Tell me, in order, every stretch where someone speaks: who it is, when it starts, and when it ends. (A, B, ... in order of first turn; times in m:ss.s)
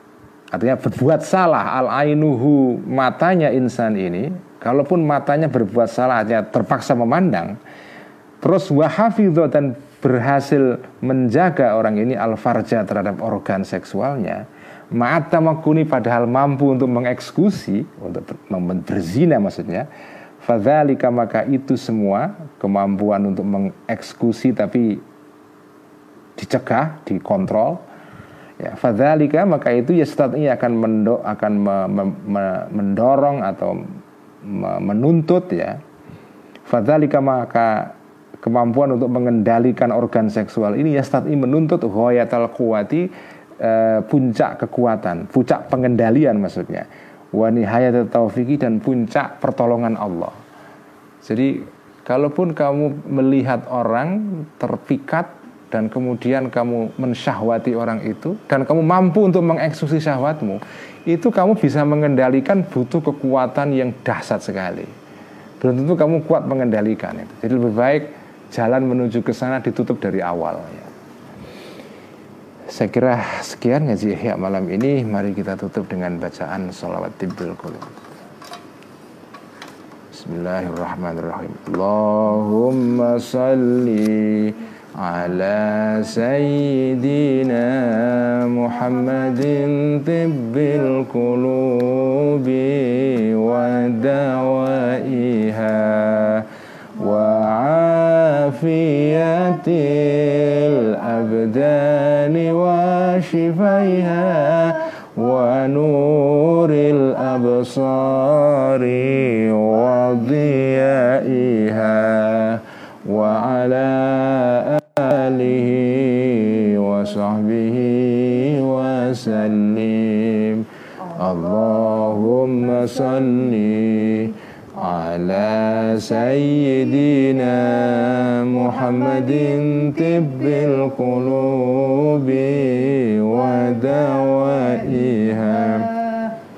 0:00.5-0:07.6 A
0:08.4-0:19.9 A
0:20.4-0:25.0 A
0:26.4-0:27.8 A
0:28.6-0:33.8 A
0:34.4-0:35.8 A
0:36.7-0:43.1 A
0:43.6-0:50.3 A
0:51.2-1:04.9 A
1:05.6-1:10.9 A
1:12.7-1:17.9 A
1:20.1-1:36.4 A
1:37.0-2:16.0 A